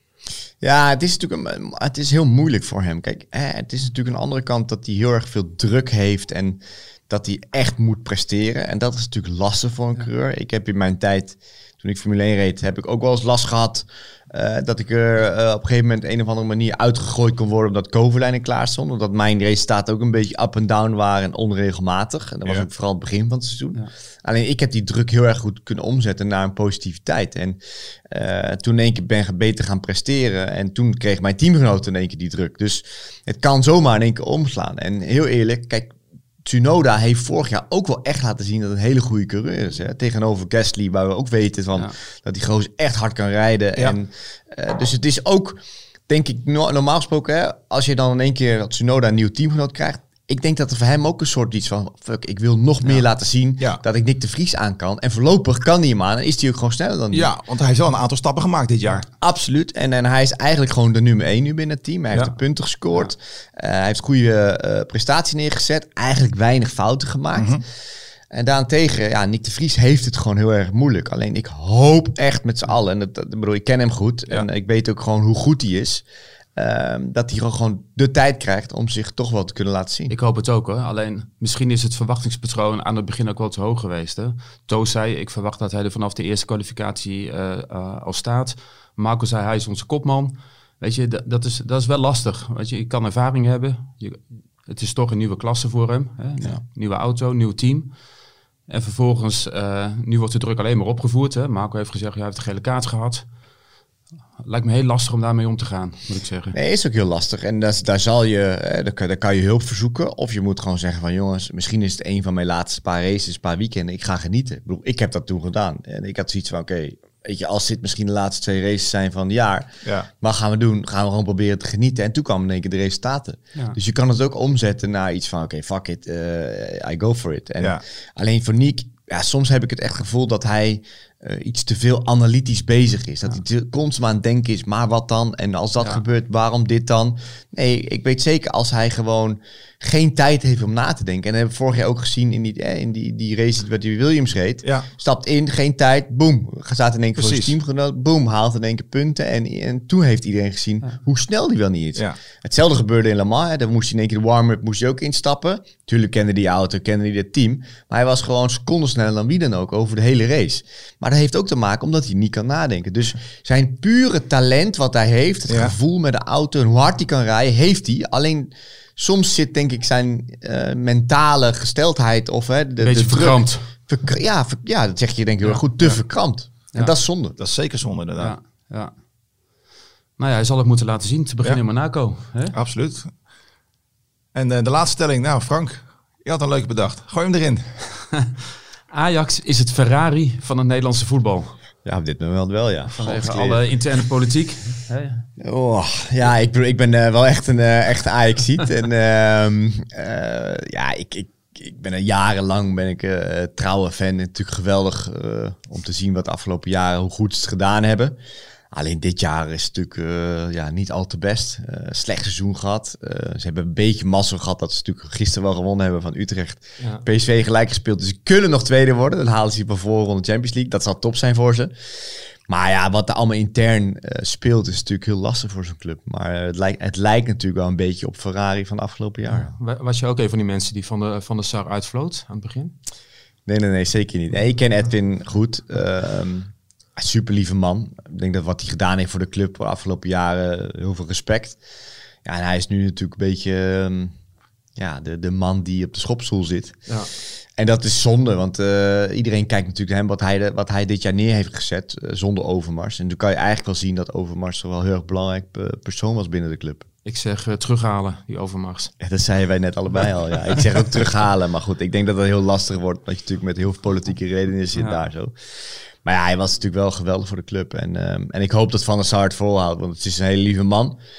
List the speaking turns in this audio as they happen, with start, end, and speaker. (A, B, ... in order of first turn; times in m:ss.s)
0:00.6-0:57.3 A
0:57.1-0:59.0 B
0:59.0-1:07.6 A
1:07.3-1:07.6 B
1:08.3-1:16.0 A
1:16.6-1:20.1 A
1:20.1-1:38.0 C
1:38.7-1:43.2 C
1:44.4-1:46.6 C
1:46.5-2:57.4 A
1:59.8-2:00.1 B
2:24.6-2:24.9 B
2:27.2-2:27.5 B
2:45.5-2:45.7 B
2:52.8-2:53.7 C
2:57.4-2:58.3 B
2:58.2-2:58.9 C
3:00.2-3:02.5 C
3:02.5-3:03.1 B
3:04.3-3:08.1 B
3:08.9-3:11.6 C
3:11.8-3:13.6 A
3:12.9-3:15.3 C
3:15.4-3:28.2 A
3:28.7-3:49.5 A
3:36.8-3:37.0 C
3:49.3-3:52.7 C
3:53.4-4:01.6 A
4:02.2-4:04.2 A
4:04.8-4:06.9 A
4:07.5-4:16.8 A
4:17.0-4:18.9 C
4:19.0-4:25.3 A
4:24.7-4:25.0 C
4:26.0-4:31.0 A